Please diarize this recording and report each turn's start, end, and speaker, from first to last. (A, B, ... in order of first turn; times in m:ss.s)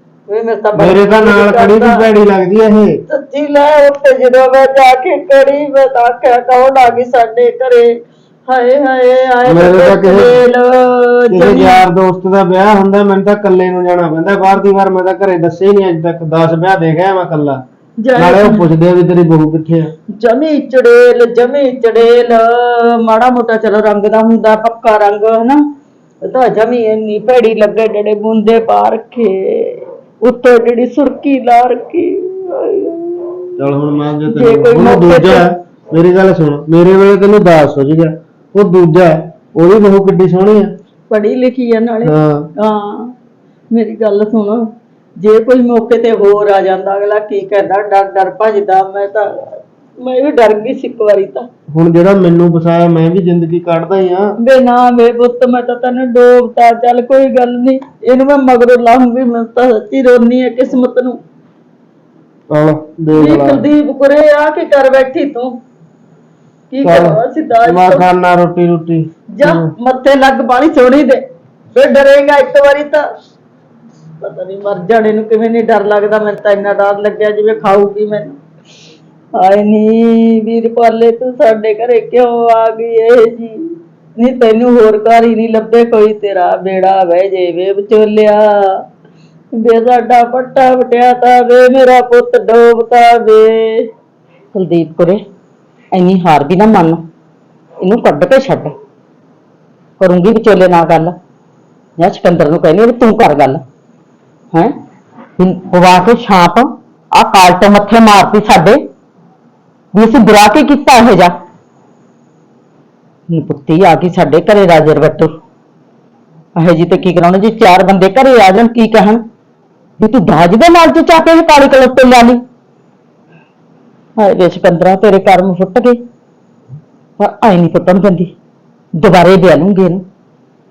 0:00.3-0:02.1 A
0:00.8-0:03.0 B
0:03.1-0:11.8 A
0:09.5-0:10.4 B
0:11.3-0:17.6 B
0:18.0-0:18.7 A
0:18.2-0:19.9 B
0:20.1-0:25.6 A
0:26.2-0:33.6 A
0:33.6-0:40.7 B
0:34.3-0:35.5 A
0:41.1-0:43.1 A
0:42.0-0:42.5 B
0:43.7-0:51.5 A
0:51.7-0:54.4 B
0:54.4-1:01.2 A
1:02.5-1:03.7 B
1:03.1-1:05.6 A
1:06.7-1:08.1 A
1:06.8-1:09.7 B
1:09.3-1:13.1 A
1:14.2-1:18.4 A
1:19.3-1:28.8 A
1:29.5-1:33.9 A
1:34.5-1:35.2 A
1:35.9-1:37.0 A
1:37.8-1:38.8 A
1:40.0-1:41.2 A
1:42.0-1:43.6 A
1:45.4-1:48.8 A
1:49.9-1:51.3 A
1:53.3-1:55.3 A
1:56.6-1:59.2 A
2:00.0-2:02.4 A
2:04.2-2:06.0 A
2:07.2-2:08.3 A
2:08.9-2:10.0 A